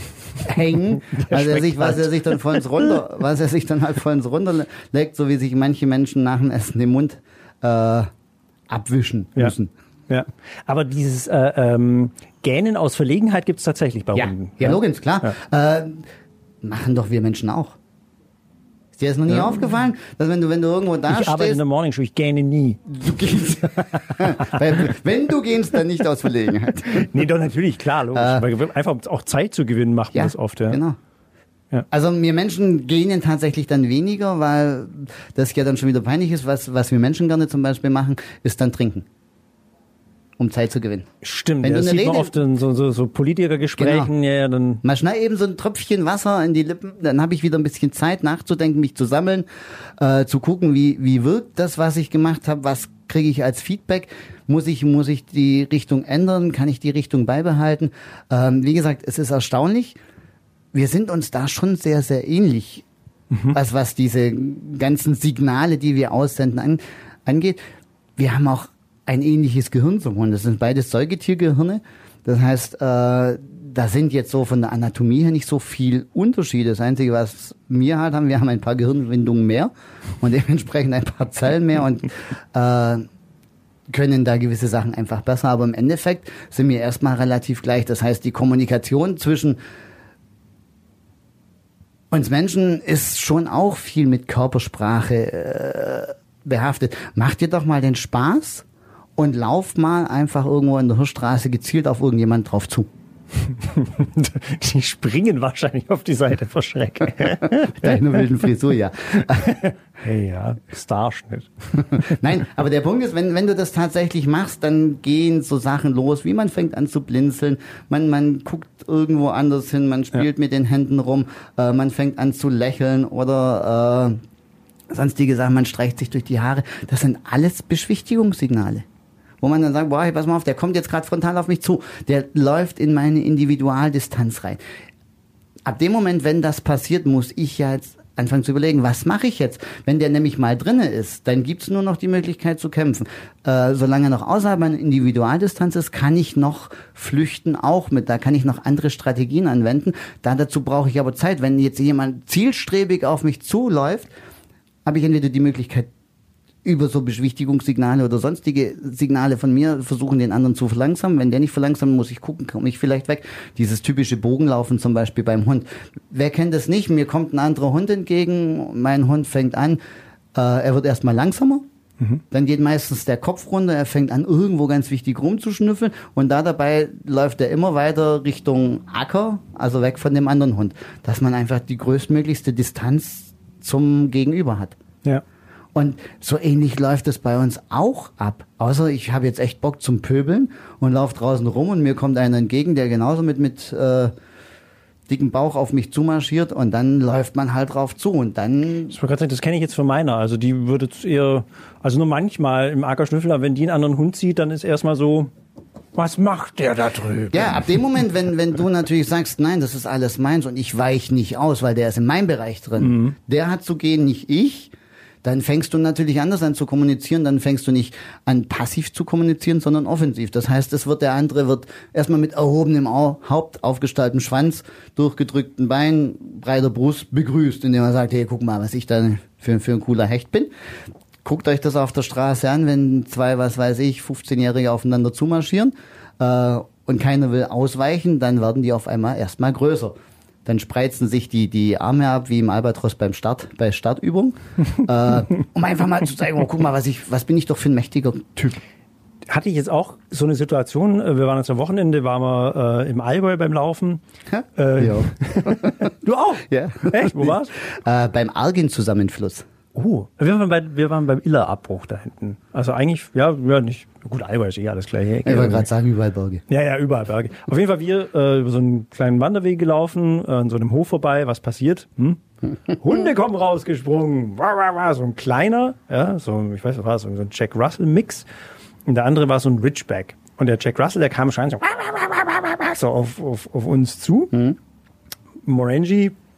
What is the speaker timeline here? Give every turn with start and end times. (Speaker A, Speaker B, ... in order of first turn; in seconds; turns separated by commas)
Speaker A: 0.4-8.1, Speaker B: 1.1-2.9, Speaker A: 8.7-9.7, Speaker B: 10.1-15.3, Speaker A: 14.2-16.1, Speaker A: 16.6-17.8, Speaker A: 18.9-21.6, Speaker B: 21.1-22.9, Speaker A: 22.9-27.2, Speaker B: 24.0-24.6, Speaker B: 26.9-30.8, Speaker A: 28.1-28.5, Speaker A: 30.1-31.0, Speaker A: 31.9-39.1, Speaker A: 40.4-41.1, Speaker B: 41.2-44.8, Speaker A: 41.6-42.3, Speaker A: 43.8-44.1, Speaker A: 44.8-49.5, Speaker A: 50.0-60.0, Speaker A: 60.7-62.9, Speaker B: 63.3-63.6, Speaker A: 63.5-67.6, Speaker A: 68.2-83.0, Speaker A: 83.9-89.6, Speaker A: 92.1-98.7, Speaker A: 99.2-102.9, Speaker B: 103.6-108.2, Speaker A: 107.6-109.6, Speaker B: 109.2-112.2, Speaker A: 111.8-124.2, Speaker A: 124.9-128.8, Speaker A: 129.4-134.6, Speaker A: 135.7-154.1, Speaker A: 154.8-155.9, Speaker A: 156.6-169.8, Speaker A: 170.3-171.7, Speaker A: 172.3-184.8, Speaker A: 185.8-194.1, Speaker A: 195.1-198.9, Speaker B: 198.9-205.3, Speaker B: 205.9-207.7, Speaker A: 207.3-214.7, Speaker B: 212.8-213.2, Speaker A: 215.2-230.5, Speaker A: 231.2-248.6, Speaker B: 249.3-254.0, Speaker A: 254.3-255.9, Speaker B: 254.6-257.5, Speaker A: 256.5-259.5, Speaker B: 259.7-265.7, Speaker A: 265.3-266.4, Speaker B: 266.5-278.2, Speaker B: 278.9-284.4, Speaker B: 285.4-286.1